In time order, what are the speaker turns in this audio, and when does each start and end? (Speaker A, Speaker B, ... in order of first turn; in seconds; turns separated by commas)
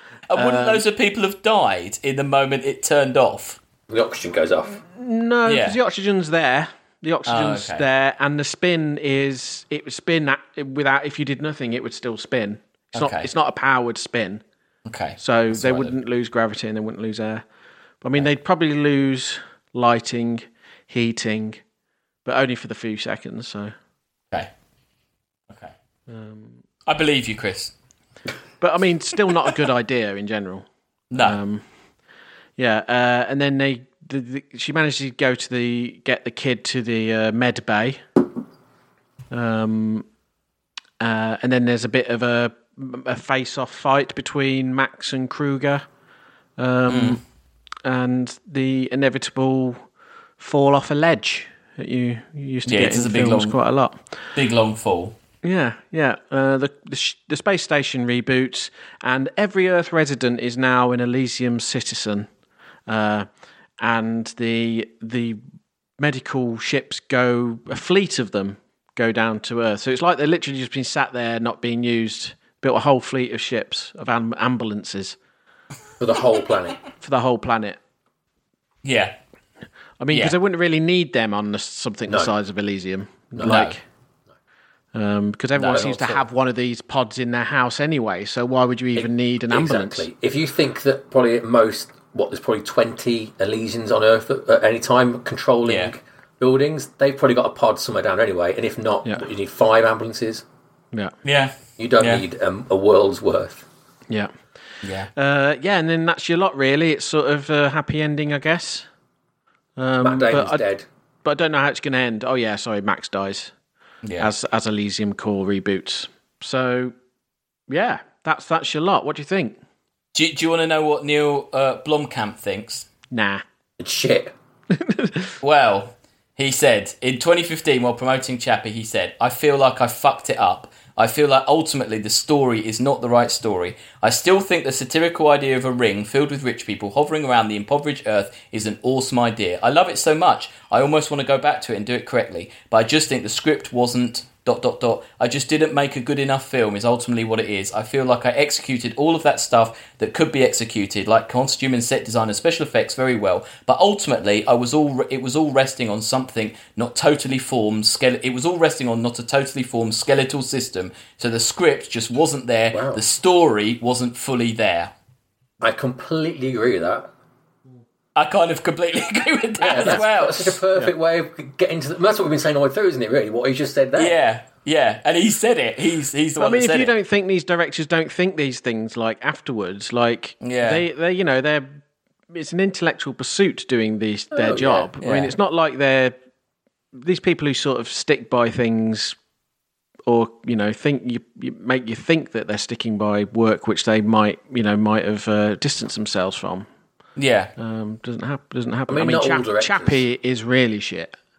Speaker A: 0.3-3.6, Speaker B: 0.3-0.8, Speaker C: 3.9-4.8, Speaker B: 4.8-14.4, Speaker A: 5.5-5.8, Speaker A: 7.3-7.9, Speaker A: 12.9-13.3, Speaker A: 14.9-15.9, Speaker B: 15.2-17.4, Speaker B: 18.0-21.6, Speaker B: 22.2-23.7, Speaker B: 26.1-26.6, Speaker A: 26.9-27.7, Speaker B: 28.6-30.6, Speaker A: 31.1-31.4, Speaker B: 31.2-31.6, Speaker B: 32.6-38.2, Speaker B: 39.3-40.0, Speaker B: 41.0-45.8, Speaker B: 46.6-47.2, Speaker A: 46.9-47.2, Speaker B: 47.8-49.8, Speaker B: 50.4-54.0, Speaker A: 52.6-53.6, Speaker A: 54.3-55.1, Speaker B: 55.4-62.3, Speaker B: 62.9-63.3, Speaker B: 63.8-65.4, Speaker B: 66.0-75.2, Speaker C: 76.0-76.8, Speaker B: 77.0-77.8, Speaker A: 78.8-79.1, Speaker B: 80.0-83.8, Speaker C: 83.4-83.7, Speaker A: 83.4-83.8, Speaker B: 84.9-90.1, Speaker A: 85.6-86.2, Speaker C: 89.0-100.4, Speaker A: 95.6-95.9, Speaker A: 101.2-102.2, Speaker C: 101.8-103.6, Speaker A: 104.8-105.1, Speaker B: 105.1-108.9, Speaker B: 109.8-110.6, Speaker C: 110.0-110.8, Speaker B: 111.2-113.5, Speaker A: 114.0-114.3, Speaker B: 114.2-116.9, Speaker B: 117.7-119.6, Speaker A: 120.1-122.9, Speaker B: 123.1-123.4, Speaker C: 123.8-124.3, Speaker B: 124.7-125.3, Speaker A: 125.4-164.9, Speaker C: 162.7-163.0, Speaker C: 165.6-167.1, Speaker A: 168.2-170.6, Speaker C: 169.6-174.2, Speaker A: 173.9-176.9, Speaker B: 176.3-186.1, Speaker A: 180.4-180.9, Speaker C: 184.4-184.8, Speaker A: 184.6-185.3, Speaker B: 186.9-189.2, Speaker B: 190.1-196.7, Speaker A: 197.2-197.5, Speaker B: 197.6-201.1, Speaker C: 198.9-200.0